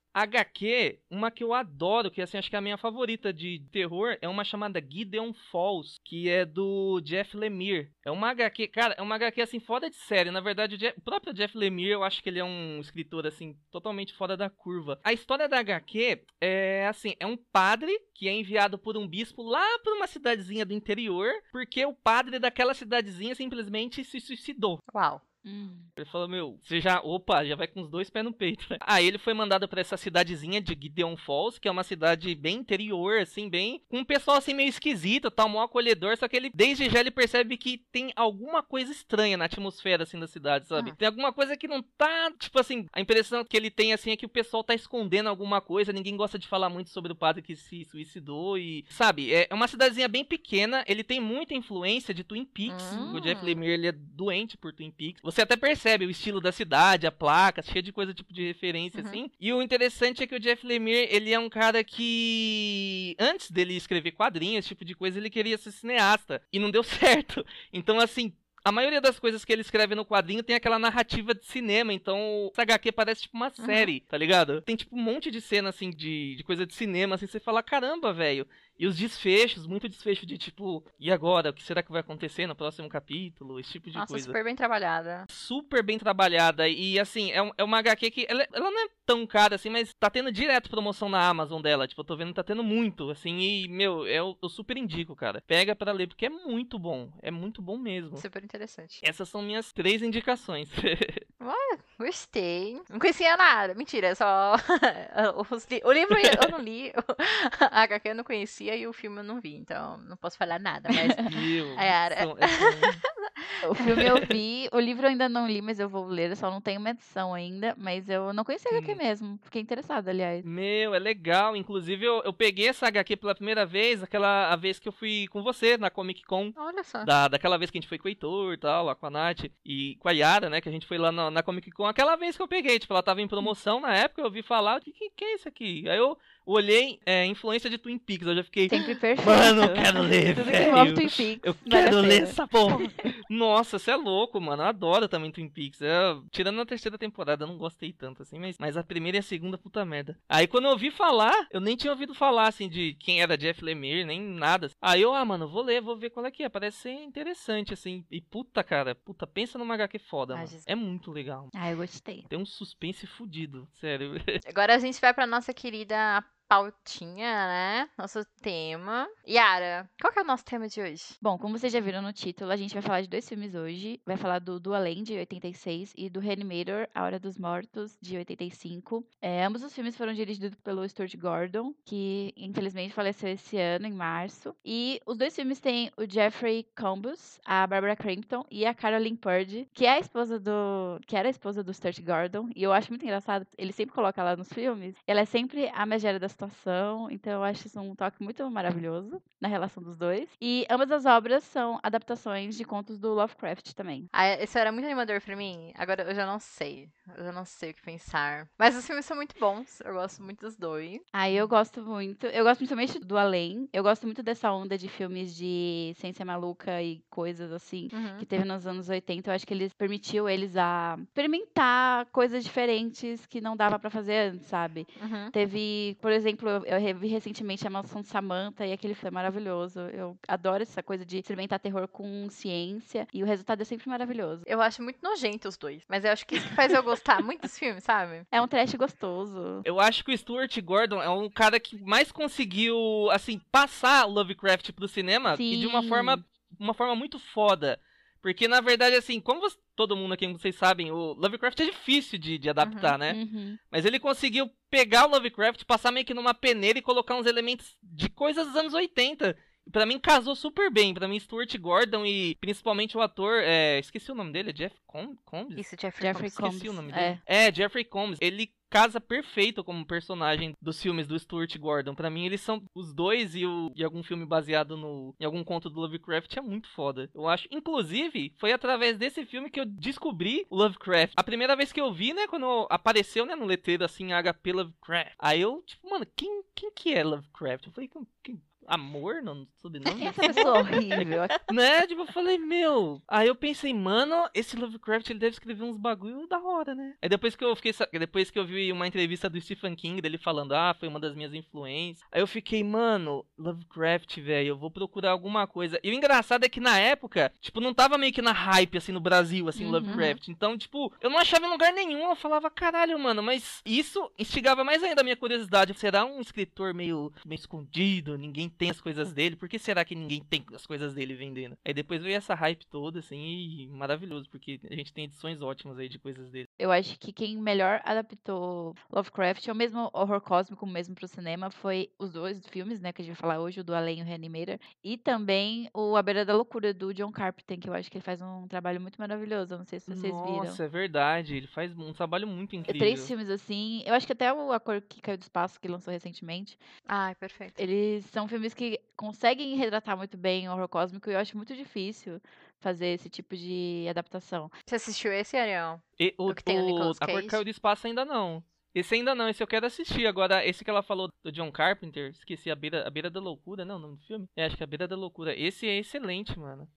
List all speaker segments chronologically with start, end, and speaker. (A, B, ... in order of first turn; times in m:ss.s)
0:00.1-0:24.8 A
0:24.9-0:25.2 B
0:25.4-0:25.9 C
0:26.0-1:24.4 A
0:52.7-0:53.6 B
1:13.6-1:13.9 B
1:23.9-1:25.2 B
1:25.3-1:38.2 A
1:38.2-1:39.0 B
1:39.0-1:41.2 A
1:41.4-1:54.0 B
1:46.1-1:46.4 A
1:51.2-1:53.0 A
1:53.6-2:00.4 C
1:58.7-1:59.0 A
2:00.4-2:41.5 A
2:06.6-2:07.1 B
2:18.7-2:22.4 C
2:40.3-2:40.6 B
2:41.5-2:42.3 C
2:42.3-2:44.4 A
2:44.4-2:51.2 B
2:51.2-3:24.1 C
3:24.1-3:31.0 B
3:31.1-3:54.4 C
3:37.9-3:38.2 B
3:45.0-3:45.3 B
3:54.4-3:58.3 B
3:58.3-3:59.7 C
3:59.6-4:13.2 A
4:05.3-4:06.2 C
4:12.6-4:13.0 B
4:13.1-4:13.6 C
4:13.7-4:25.6 A
4:25.6-4:26.5 B
4:26.0-4:27.2 C
4:26.4-4:50.4 A
4:49.8-4:51.2 B
4:50.0-4:51.3 C
4:51.0-5:26.5 A
5:09.6-5:10.0 C
5:09.9-5:10.2 B
5:26.6-5:40.6 C
5:39.9-5:43.1 A
5:42.7-5:46.6 C
5:46.9-5:47.6 B
5:47.6-5:54.5 C
5:54.7-5:57.4 B
5:56.0-6:06.7 A